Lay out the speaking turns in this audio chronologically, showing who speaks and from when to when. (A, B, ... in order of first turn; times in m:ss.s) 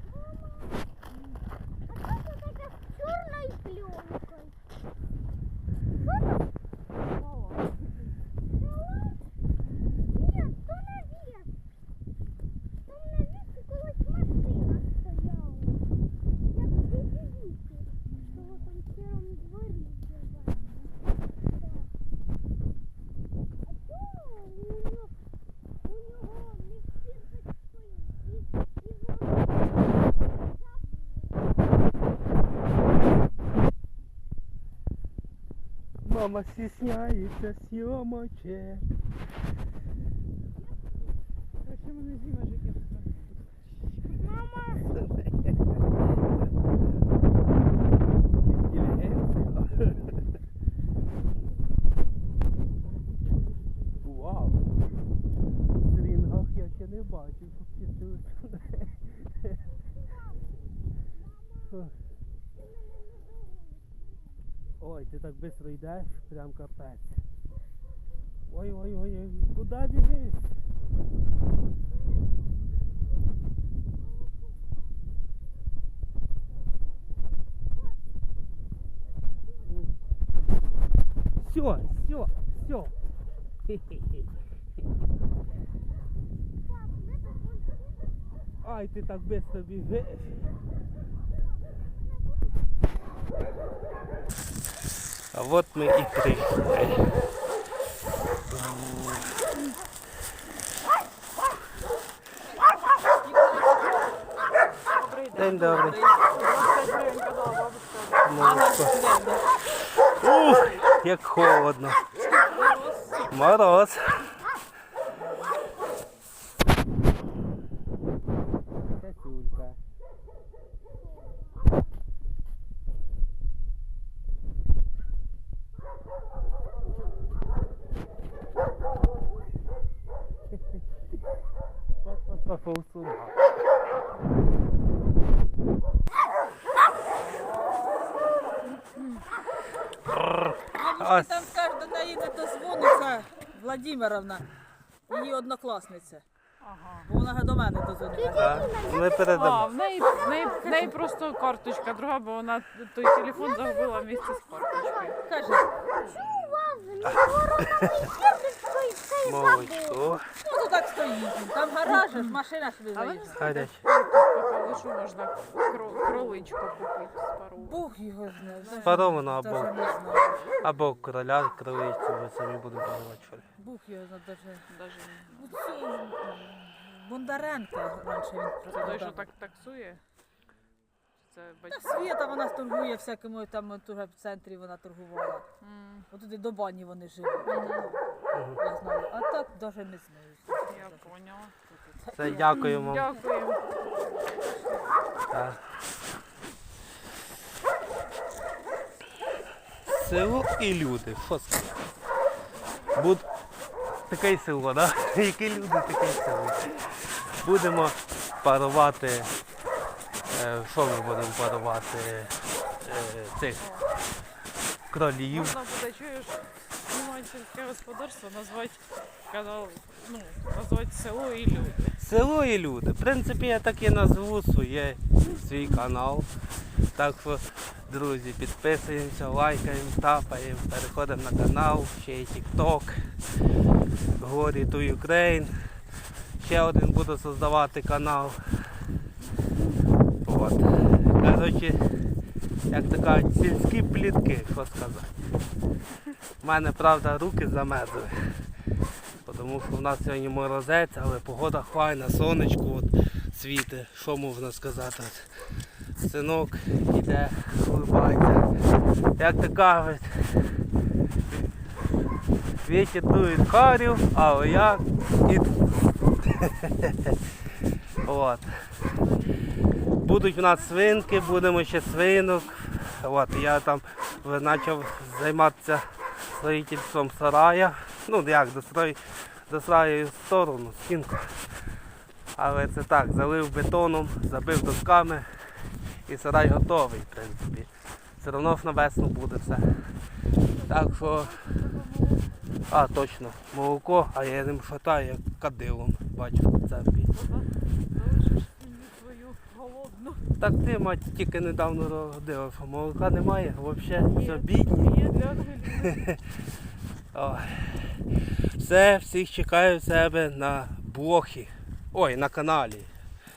0:02.3-0:04.5 A
0:07.2-0:07.7 B
0:10.7-0:11.5 A
0:13.0-0:15.7 A
0:17.2-0:17.8 A
0:18.6-0:20.2 A
0:24.1-0:24.9 A
0:26.2-0:26.8 A
0:36.0-0:38.9 C
0:41.6-0:43.5 B
0:44.5-0:44.8 A
0:44.9-0:45.7 C
0:48.5-0:50.2 C
0:54.0-0:54.6 C
0:55.8-0:59.3 C
1:01.7-1:02.0 C
1:04.8-1:07.2 C
1:08.5-1:10.5 C
1:19.7-1:19.9 C
1:21.4-1:22.9 C
1:23.7-1:24.3 C
1:27.1-1:27.5 A
1:28.6-1:30.5 C
1:35.3-1:37.2 C
1:38.5-1:39.4 C
1:43.2-1:43.9 D
1:44.9-1:48.6 B
1:45.3-1:46.0 C
1:45.6-1:46.2 D
1:48.2-1:49.0 C
1:48.4-1:49.5 D
1:50.0-1:52.0 C
1:52.5-1:53.3 B
1:53.3-1:54.4 C
1:58.9-1:59.8 C
2:12.0-2:13.4 C
2:20.1-2:21.5 C
2:20.7-2:24.5 D
2:25.1-2:26.2 D
2:26.6-2:27.1 B
2:27.1-2:28.7 D
2:28.4-2:29.7 C
2:29.3-2:35.2 B
2:30.6-2:31.0 D
2:35.2-2:35.7 D
2:36.5-2:39.8 A
2:37.2-2:38.0 C
2:39.2-2:40.3 C
2:40.4-2:43.5 D
2:42.1-2:42.4 B
2:42.9-2:47.8 B
2:43.4-2:43.8 C
2:47.6-2:50.5 D
2:48.6-2:49.0 B
2:48.8-2:49.7 C
2:50.6-2:53.5 C
2:53.6-2:54.6 D
2:54.7-2:55.5 B
2:55.3-2:59.3 D
2:58.6-3:00.0 B
3:01.2-3:02.2 B
3:01.7-3:05.4 D
3:05.6-3:06.1 B
3:06.1-3:08.0 D
3:07.4-3:07.9 B
3:08.3-3:08.6 C
3:08.6-3:11.1 D
3:10.7-3:11.6 B
3:11.8-3:12.7 D
3:12.2-3:13.1 C
3:12.2-3:13.8 B
3:14.5-3:14.8 B
3:15.3-3:15.6 C
3:19.8-3:21.8 C
3:22.9-3:23.3 C
3:24.1-3:29.3 C
3:30.3-3:33.6 C
3:33.6-3:33.9 B
3:34.9-3:35.6 C
3:35.3-3:42.0 B
3:42.0-3:46.3 C
3:47.0-3:53.1 C
3:54.2-3:55.6 C
3:56.4-3:58.7 C
4:00.2-4:02.1 C
4:02.7-4:05.2 C
4:06.4-4:08.5 C
4:09.2-4:15.4 C
4:16.0-4:18.5 C
4:19.2-4:20.6 C
4:22.6-4:25.7 C
4:26.2-4:27.2 C
4:28.0-4:28.7 C
4:29.0-4:32.0 B
4:30.0-4:41.5 C
4:42.4-4:45.3 C
4:46.1-4:50.0 C
4:50.4-4:52.6 B
4:50.7-4:51.4 C
4:52.7-4:57.1 C
4:57.1-5:00.3 B
5:00.4-5:05.0 C
5:04.0-5:06.1 B
5:05.9-5:06.2 C
5:07.1-5:12.9 C